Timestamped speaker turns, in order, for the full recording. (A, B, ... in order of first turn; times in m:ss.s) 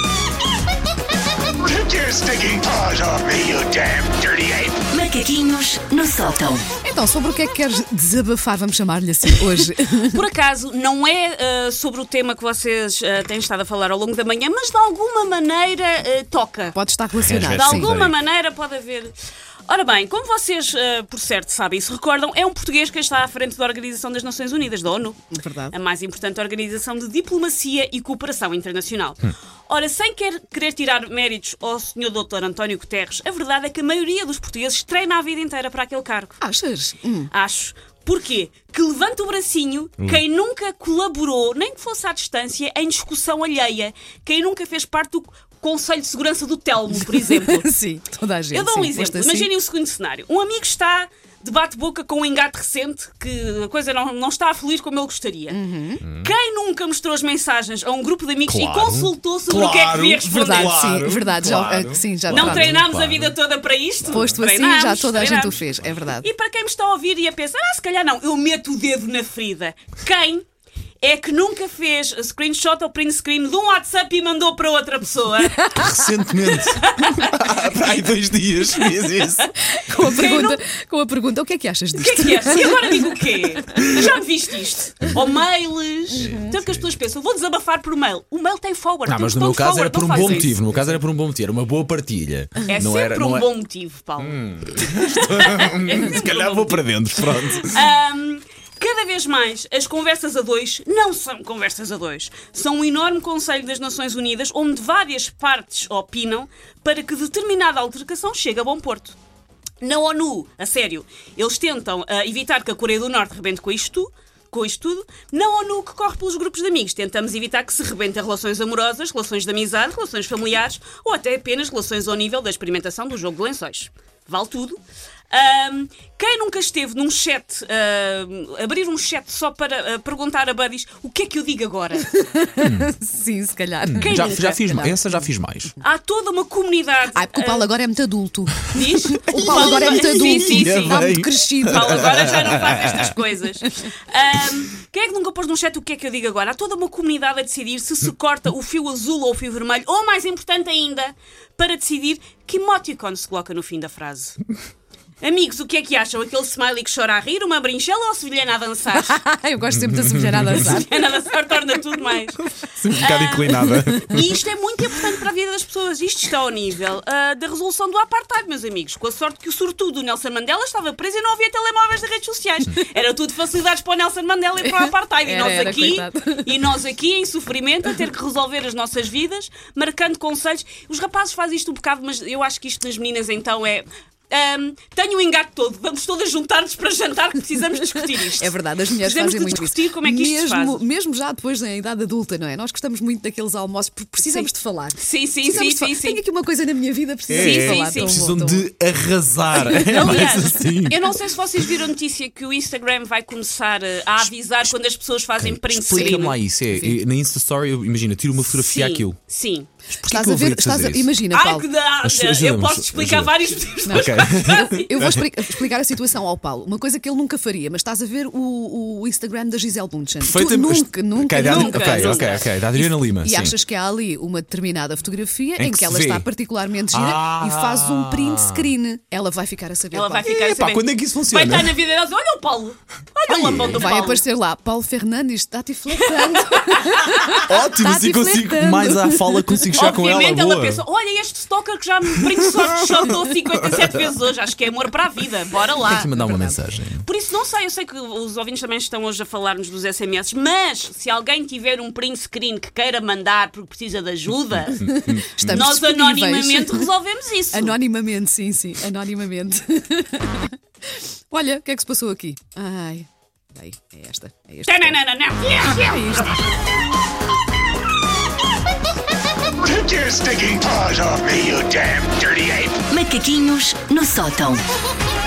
0:01.6-0:04.8 A
0:04.9-0:06.6 B
0:06.8-0:10.2 C
0:09.6-0:16.8 D
0:16.8-0:17.9 C
0:17.2-0:18.2 E
0:17.3-0:19.1 D
0:19.7-0:36.4 D
0:25.3-0:25.8 C
0:36.4-0:37.3 C
0:37.3-0:47.7 D
0:47.1-0:49.5 C
0:48.5-1:00.9 D
0:55.5-0:56.0 C
0:56.0-0:56.3 E
0:58.5-1:03.4 E
1:00.2-1:02.9 C
1:02.3-1:05.6 D
1:04.1-1:04.3 E
1:04.1-1:06.3 C
1:06.2-1:10.4 D
1:11.0-1:17.7 D
1:15.8-1:19.5 E
1:19.6-1:23.1 C
1:19.9-1:20.6 D
1:22.0-1:30.9 D
1:26.2-1:26.9 E
1:26.2-1:26.5 C
1:29.1-1:33.5 E
1:32.6-1:36.9 D
1:34.2-1:37.8 E
1:37.6-1:49.2 D
1:49.8-2:04.8 D
2:05.3-2:12.3 D
2:12.1-2:15.3 C
2:12.6-2:12.9 E
2:14.0-2:14.6 D
2:14.0-2:15.7 E
2:15.8-2:17.7 D
2:17.1-2:22.2 C
2:18.7-2:21.1 D
2:20.0-2:23.2 E
2:21.6-2:34.4 D
2:35.2-2:39.2 D
2:38.9-2:41.0 C
2:39.7-2:40.7 E
2:40.5-2:42.4 D
2:42.6-2:44.4 E
2:43.0-3:10.9 D
2:43.7-2:44.0 C
2:54.6-2:56.6 C
3:08.4-3:18.7 C
3:14.3-3:16.2 D
3:17.3-3:21.0 E
3:17.3-3:18.4 D
3:19.6-3:26.4 D
3:19.9-3:20.4 C
3:25.4-3:29.2 E
3:25.9-3:27.0 C
3:28.5-3:29.7 D
3:29.9-3:31.2 E
3:30.0-3:31.6 C
3:31.3-3:35.0 D
3:32.0-3:35.3 E
3:33.8-3:50.3 C
3:40.2-3:43.6 E
3:41.4-3:42.5 D
3:45.6-3:46.3 E
3:46.9-3:48.7 E
3:49.9-3:54.2 D
3:50.3-3:51.8 E
3:53.3-3:53.8 E
3:53.6-3:59.9 C
3:55.9-3:57.3 D
3:57.4-4:00.8 E
3:59.8-4:06.3 D
4:02.3-4:03.1 E
4:05.8-4:07.1 E
4:06.1-4:06.6 C
4:07.0-4:17.8 D
4:14.8-4:16.9 C
4:15.0-4:15.6 E
4:17.5-4:25.0 C
4:24.7-4:26.4 D
4:25.6-4:26.4 C
4:29.6-4:32.9 A
4:32.9-4:34.6 B